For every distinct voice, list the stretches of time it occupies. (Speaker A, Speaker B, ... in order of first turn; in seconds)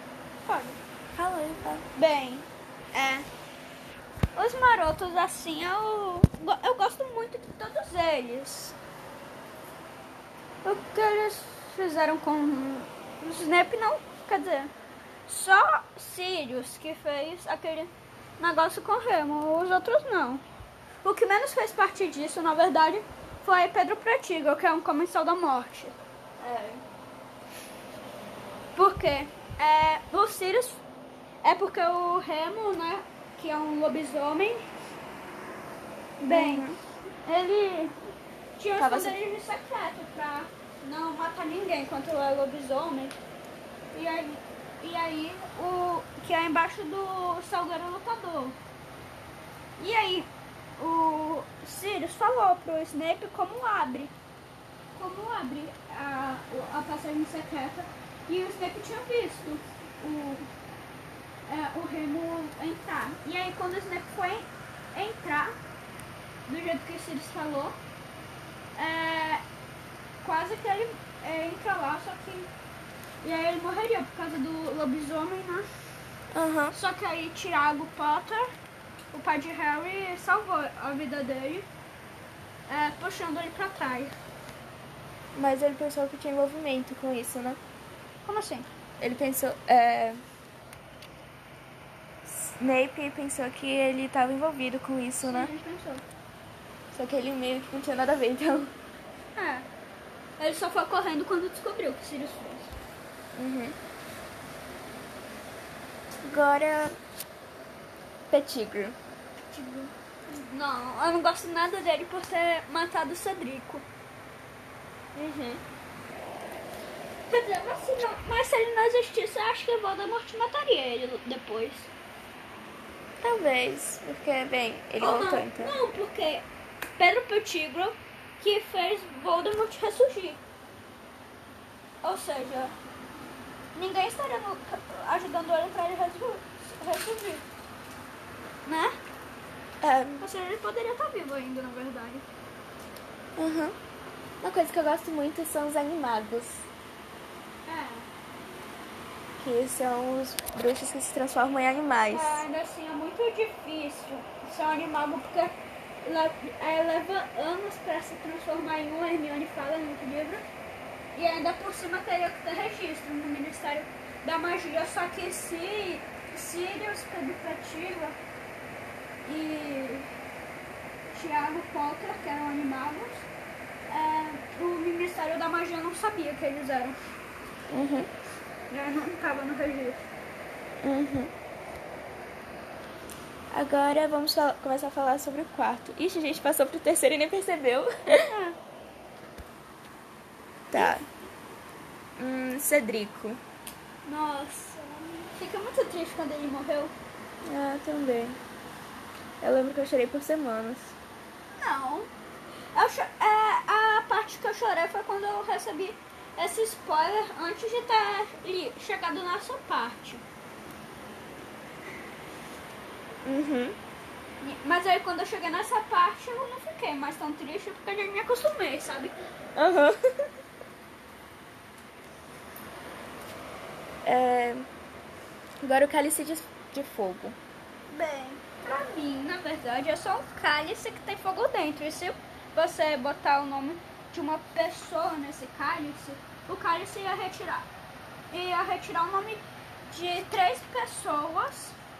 Speaker A: 0.5-0.8, 1.9-3.3, 4.3-8.8, 10.6-14.7, 15.3-20.4, 21.0-26.0, 28.8-30.8, 31.4-34.6, 36.2-36.6, 37.2-38.0, 38.6-43.2, 43.9-48.6, 49.8-54.1, 54.9-60.5, 61.5-65.6, 66.5-67.8, 68.8-69.4, 70.2-72.5, 73.2-75.7, 76.7-78.5, 79.1-81.7, 82.7-84.1, 88.2-88.7, 95.2-96.0, 99.4-99.7, 100.4-102.7, 109.5-113.9, 117.3-121.9, 125.0-126.5, 127.0-130.4, 132.0-132.7, 133.7-137.4, 138.7-138.9, 140.2-142.2, 147.7-148.1, 152.1-160.4, 161.1-168.2, 169.2-170.1, 171.1-173.2, 173.9-177.0, 178.7-180.0, 188.2-188.6, 190.7-191.1, 194.1-196.9, 201.6-202.1, 202.7-210.2, 214.4-219.1, 227.9-237.7, 238.3-241.8
Speaker B: 1.1-1.9, 26.4-26.8, 36.3-36.8, 38.8-39.2, 76.3-76.8, 85.3-87.6, 89.0-90.2, 92.2-95.5, 96.9-98.7, 103.4-103.8, 106.2-107.0, 108.3-109.0, 115.1-115.6, 123.2-125.7, 139.8-140.2, 143.4-143.7, 144.4-146.7, 149.4-152.4, 177.7-178.1, 180.8-181.3, 183.5-188.3, 190.7-191.0, 192.2-193.4, 197.4-198.4, 199.4-200.9, 213.2-213.8, 219.6-220.0, 224.1-224.7, 225.6-227.4